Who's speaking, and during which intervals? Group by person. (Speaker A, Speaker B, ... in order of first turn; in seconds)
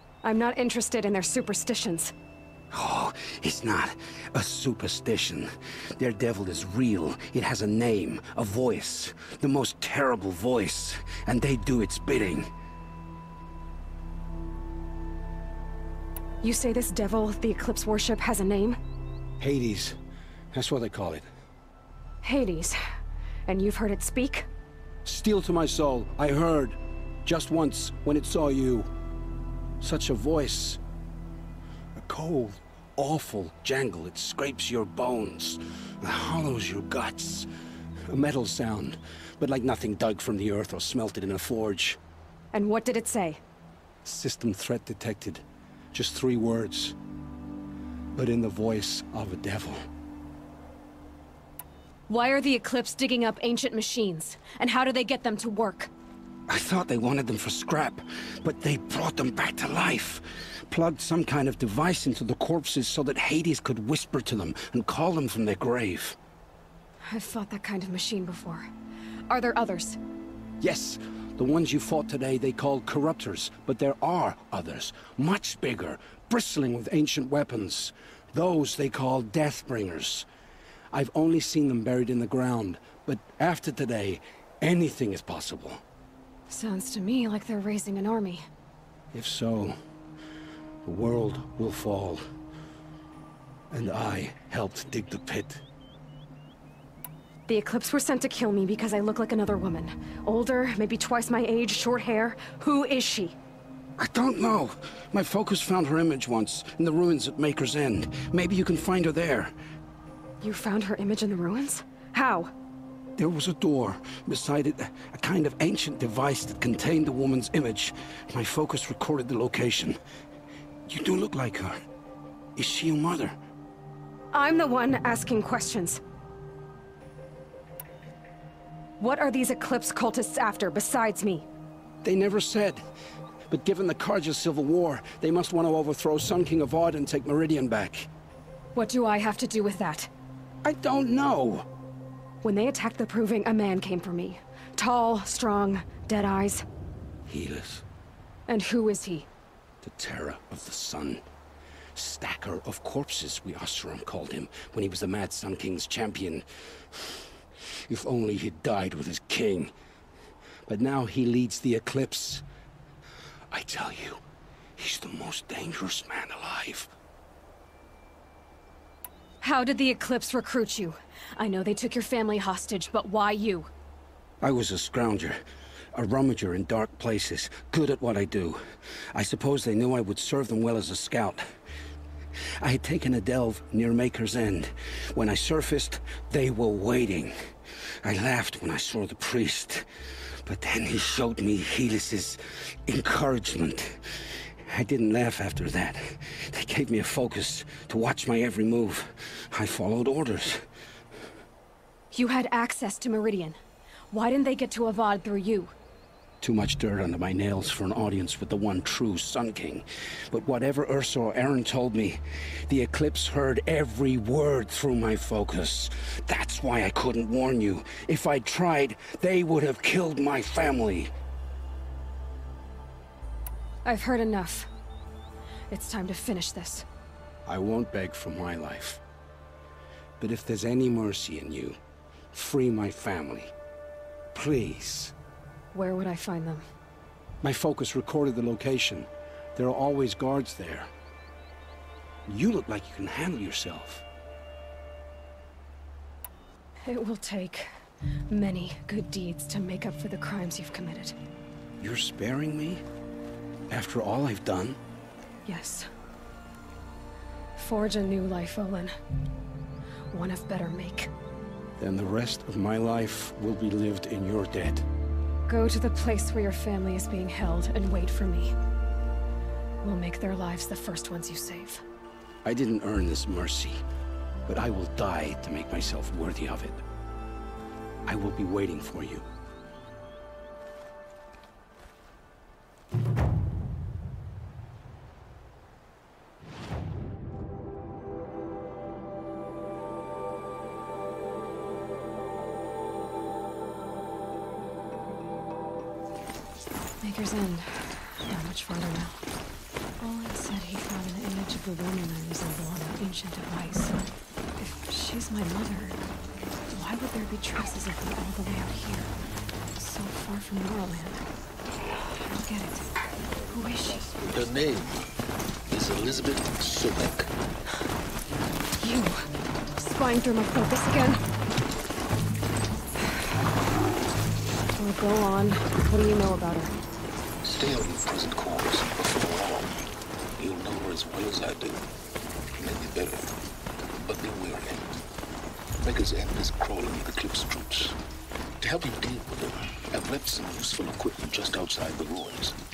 Speaker A: 0.2-2.1, 16.4-18.8, 22.2-22.8, 23.5-24.5, 42.5-43.4, 52.1-55.9, 67.1-68.7, 69.3-70.0, 86.5-88.4, 97.5-103.3, 110.4-112.5, 124.3-126.0, 129.0-131.4, 138.7-140.1, 142.4-146.6, 148.5-149.3, 169.4-173.7, 202.1-203.6, 204.1-205.7, 223.8-224.7, 225.7-226.8, 235.7-236.6, 246.8-247.7, 248.3-251.2, 255.4-255.9, 257.6-258.9, 260.1-261.1, 265.5-268.5, 269.8-271.8, 297.0-299.2, 300.0-303.9, 304.6-306.0, 306.7-309.1, 309.8-311.2, 312.0-312.9, 313.5-314.2, 318.8-319.2, 319.8-321.2, 324.8-326.7
Speaker B: 2.7-12.5, 19.4-20.0, 20.5-21.2, 25.0-28.9, 29.8-30.8, 31.9-37.5, 38.1-42.0, 44.0-46.9, 48.1-49.8, 56.5-66.2, 70.6-80.3, 80.9-85.8, 89.1-89.8, 90.8-92.2, 93.7-95.6, 104.0-109.5, 113.2-120.0, 120.9-121.8, 122.5-123.3, 132.0-132.8, 133.5-138.1, 140.6-141.7, 147.3-147.8, 149.8-151.2, 151.9-157.2, 157.9-159.7, 160.7-162.4, 163.5-164.2, 164.8-166.9, 174.4-175.4, 175.9-178.6, 179.1-181.5, 182.6-187.3, 188.0-189.9, 190.4-194.0, 194.7-200.6, 206.4-221.1, 227.4-229.0, 230.2-231.8, 232.3-233.5, 234.3-235.1, 237.4-240.9, 242.2-244.0, 251.8-252.8, 253.7-254.8, 261.8-264.9, 272.4-273.8, 274.4-276.8, 278.1-279.2
Speaker C: 314.3-315.0, 315.7-317.3, 327.4-329.8, 330.4-331.8, 332.6-333.2, 333.9-334.9, 335.8-337.9, 338.6-342.6